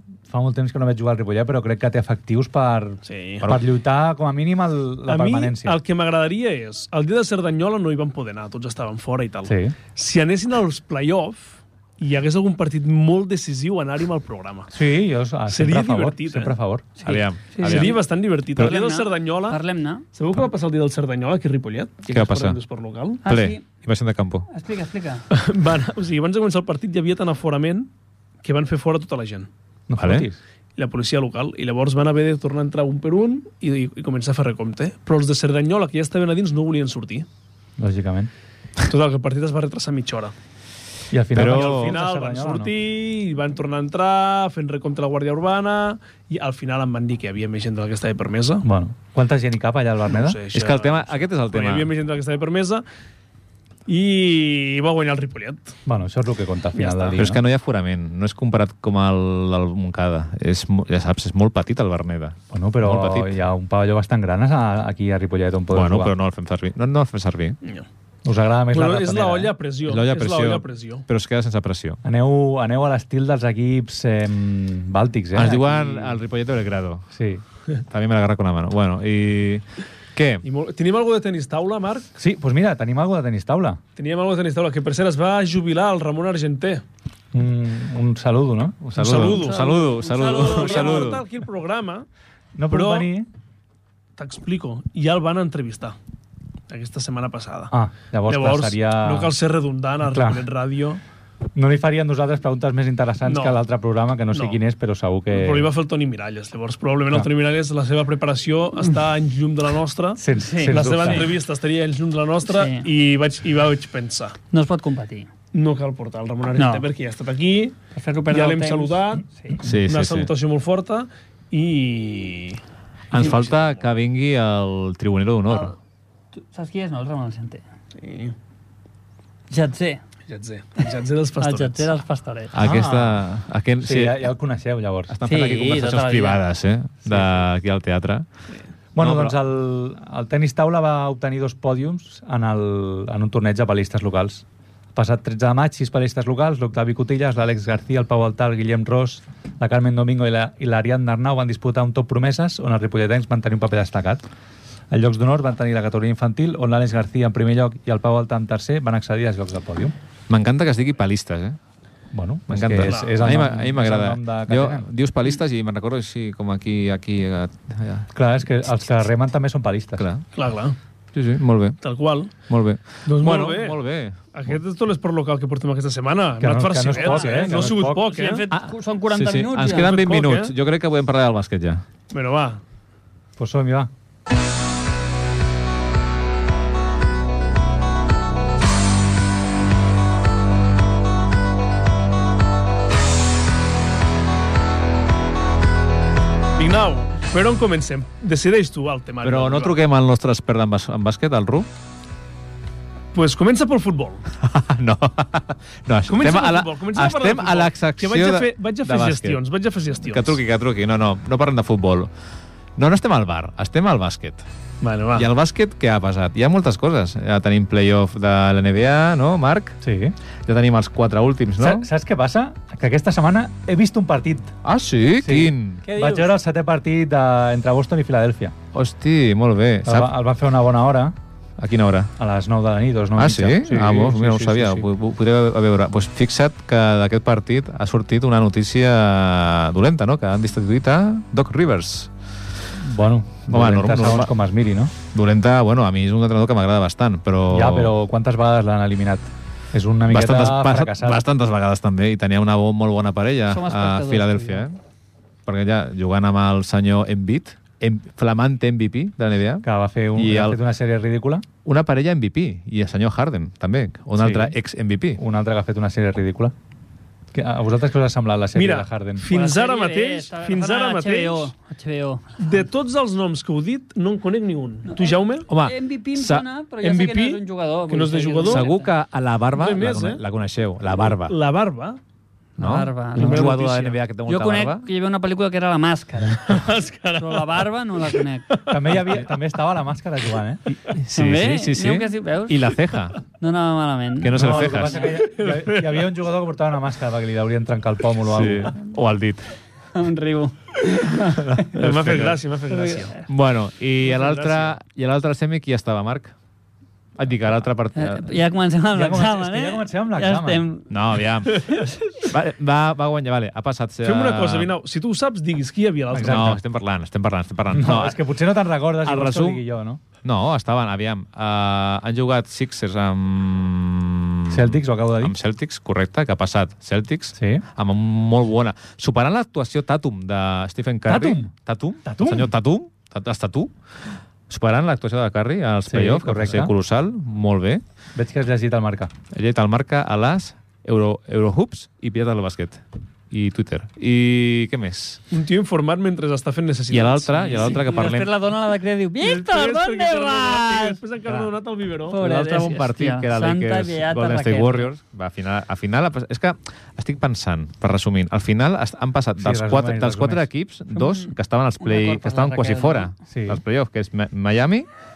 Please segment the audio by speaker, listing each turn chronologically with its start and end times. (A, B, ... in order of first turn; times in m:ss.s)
0:00.3-0:05.8 A
0:03.0-0:03.5 B
0:05.1-0:14.7 B
0:09.5-0:09.8 A
0:14.7-0:16.8 A
0:15.5-0:16.5 B
0:17.0-0:18.0 C
0:17.0-0:18.0 D
0:17.6-0:19.6 B
0:18.5-0:20.1 C
0:20.1-0:23.2 B
0:22.1-0:22.6 D
0:23.2-0:23.7 C
0:23.3-0:24.5 D
0:24.5-0:25.3 C
0:25.3-0:27.9 B
0:28.4-0:29.5 B
0:29.9-0:30.4 A
0:30.0-0:30.3 D
0:30.8-0:37.3 B
0:37.8-0:38.3 A
0:38.8-0:40.4 B
0:41.1-0:42.7 A
0:41.3-0:42.0 D
0:41.4-0:48.6 B
0:48.6-0:50.4 A
0:50.1-0:52.8 B
0:50.5-0:51.9 D
0:53.9-0:55.8 B
0:55.9-0:57.4 A
0:56.8-0:57.2 B
0:57.2-1:03.4 D
1:02.5-1:06.1 A
1:05.7-1:07.6 D
1:07.6-1:07.9 B
1:08.2-1:09.5 A
1:08.7-1:11.0 B
1:09.8-1:12.0 D
1:12.0-1:15.7 A
1:15.3-1:17.1 D
1:15.5-1:16.2 B
1:17.1-1:17.4 A
1:17.9-1:19.6 D
1:20.2-1:20.4 D
1:20.4-1:22.1 B
1:22.2-1:23.8 A
1:24.0-1:26.8 B
1:27.3-1:29.4 A
1:29.0-1:31.2 D
1:29.0-1:32.1 B
1:29.3-1:31.2 C
1:32.6-1:33.3 A
1:32.7-1:33.1 B
1:34.2-1:36.0 B
1:36.7-1:37.7 B
1:37.7-1:39.3 A
1:38.3-1:41.0 B
1:40.1-1:40.4 A
1:41.6-1:45.7 A
1:43.2-1:43.6 B
1:44.3-1:44.6 B
1:45.3-1:54.4 B
1:50.2-1:51.3 A
1:50.4-1:51.3 C
1:52.5-1:52.9 C
1:54.5-1:55.3 C
1:55.5-1:57.8 B
1:56.6-1:56.9 C
1:58.0-1:59.6 C
1:58.3-2:02.6 B
1:59.6-2:00.3 D
2:03.1-2:05.8 D
2:03.2-2:03.6 B
2:05.5-2:05.8 C
2:06.4-2:07.6 C
2:08.0-2:08.4 B
2:09.5-2:10.0 C
2:10.3-2:11.9 B
2:10.8-2:12.5 C
2:12.5-2:14.3 D
2:12.6-2:13.2 A
2:13.8-2:15.1 A
2:15.1-2:18.3 D
2:15.3-2:16.4 C
2:17.1-2:17.4 A
2:19.0-2:34.2 A
2:19.0-2:19.4 D
2:34.9-2:39.9 A
2:40.3-2:41.6 D
2:42.1-2:44.9 A
2:42.5-2:48.1 D
2:42.8-2:43.2 B
2:48.1-2:50.1 A
2:50.0-2:50.2 D
2:50.3-2:50.8 B
2:51.1-2:51.8 D
2:51.8-2:52.3 B
2:52.5-2:54.6 D
2:53.1-2:53.8 B
2:54.3-2:58.4 B
2:56.4-2:58.1 A
2:56.9-3:00.0 C
2:58.5-3:01.8 D
2:59.7-3:00.6 B
3:02.1-3:02.6 B
3:03.4-3:03.9 A
3:16.6-3:19.7 B
3:19.2-3:21.7 D
3:23.1-3:24.2 B
3:24.4-3:29.4 D
3:26.1-3:30.4 B
3:30.0-3:32.1 D
3:32.8-3:34.5 D
3:34.8-3:35.3 B
3:35.2-3:39.8 D
3:39.8-3:40.2 A
3:40.5-3:41.9 D
3:41.6-3:44.5 A
3:44.6-3:45.8 D
3:45.2-3:48.5 A
3:45.9-3:46.3 C
3:48.7-3:50.1 D
3:49.8-3:51.2 A
3:51.6-3:52.1 D
3:52.2-3:54.9 A
3:53.2-4:02.1 D
4:02.8-4:04.9 A
4:03.5-4:04.3 D
4:05.1-4:07.9 D
4:07.5-4:11.2 A
4:10.1-4:14.8 D
4:13.5-4:14.6 C
4:15.5-4:19.6 D
4:19.6-4:21.5 A
4:20.2-4:20.6 D
4:21.6-4:25.2 D
4:24.2-4:24.6 A
4:25.2-4:26.5 A
4:27.3-4:29.2 A
4:28.5-4:31.5 B
4:29.3-4:32.3 C
4:32.4-4:35.5 B
4:34.9-4:38.9 C
4:35.5-4:36.4 D
4:36.8-4:38.7 B
4:38.4-4:41.4 D
4:39.5-4:40.2 B
4:41.3-4:42.0 B
4:42.6-4:44.9 D
4:42.6-4:46.6 C
4:43.2-4:43.9 B
4:46.5-4:49.2 B
4:47.2-4:48.6 C
4:48.7-4:50.6 A
4:50.9-4:53.2 D
4:51.1-4:52.8 C
4:53.4-4:55.0 C
4:54.2-4:55.1 D
4:54.3-4:58.7 A
4:55.0-4:56.1 B
4:58.2-4:59.5 D
4:59.9-5:01.7 C
5:01.4-5:02.4 D
5:01.8-5:03.2 B
5:02.7-5:03.3 C
5:03.3-5:06.3 D
5:04.0-5:04.8 B
5:07.2-5:08.3 D
5:08.0-5:12.3 C
5:08.9-5:10.6 A
5:10.9-5:14.7 D
5:14.0-5:16.6 B
5:16.1-5:16.6 A
5:16.2-5:18.2 D
5:17.7-5:20.0 A
5:19.0-5:19.6 D
5:20.2-5:37.8 D
5:24.5-5:25.4 A
5:27.4-5:27.6 A
5:31.1-5:31.5 A
5:32.0-5:32.5 A
5:35.9-5:36.7 A
5:38.2-5:39.1 A
5:39.3-5:45.2 D
5:45.3-5:47.8 B
5:46.9-5:48.3 D
5:47.5-5:51.0 C
5:49.2-5:52.2 B
5:52.1-5:54.9 C
5:52.2-6:04.9 D
5:59.4-6:00.5 A
6:01.0-6:03.1 C
6:03.3-6:03.6 A